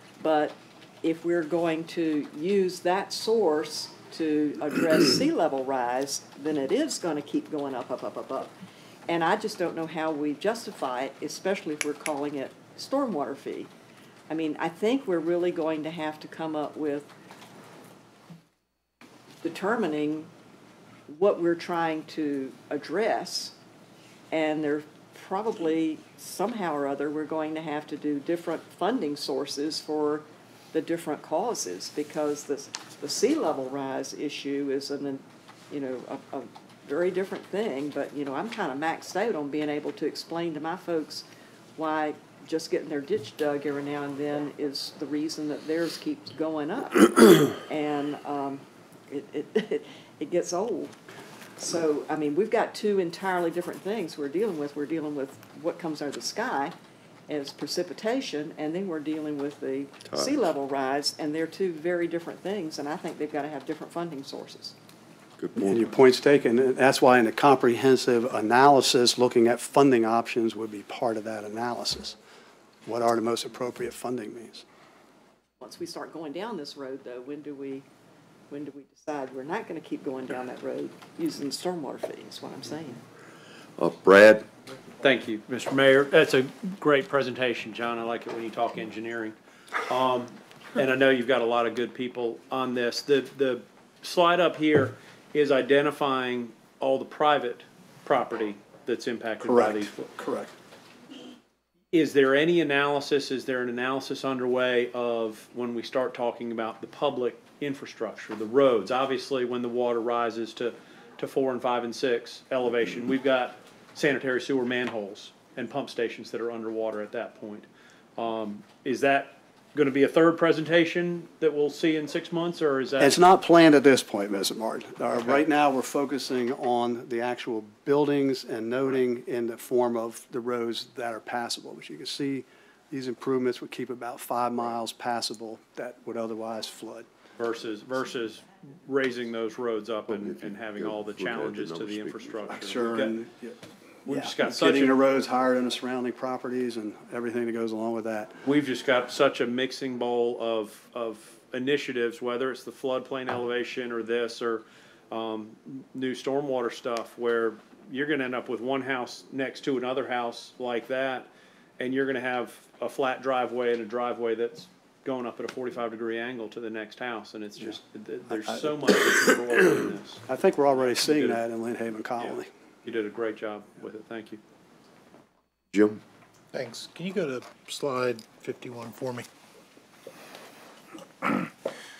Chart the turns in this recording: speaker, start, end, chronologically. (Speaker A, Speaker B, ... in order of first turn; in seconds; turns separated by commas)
Speaker A: 0.2-8.5, Speaker A: 9.1-13.7, Speaker A: 14.3-17.1, Speaker A: 19.4-20.3, Speaker A: 21.1-23.5, Speaker A: 24.3-41.2, Speaker A: 41.8-50.9, Speaker A: 51.6-56.7, Speaker A: 57.3-64.7, Speaker B: 60.0-60.5, Speaker B: 65.4-65.9, Speaker C: 65.5-72.2, Speaker C: 72.8-74.6, Speaker A: 75.6-77.8, Speaker A: 78.5-83.0, Speaker B: 83.8-84.5, Speaker D: 85.0-89.3, Speaker D: 89.9-100.1, Speaker C: 99.4-100.5, Speaker D: 101.9-123.2, Speaker C: 123.0-137.1, Speaker D: 137.4-143.2, Speaker B: 140.1-142.5, Speaker C: 142.5-148.3, Speaker D: 144.1-145.0, Speaker D: 148.4-170.2, Speaker C: 168.3-168.7, Speaker C: 170.3-172.5, Speaker D: 170.8-171.4, Speaker D: 172.8-174.4, Speaker B: 175.7-176.0, Speaker E: 176.5-179.3, Speaker E: 181.2-181.5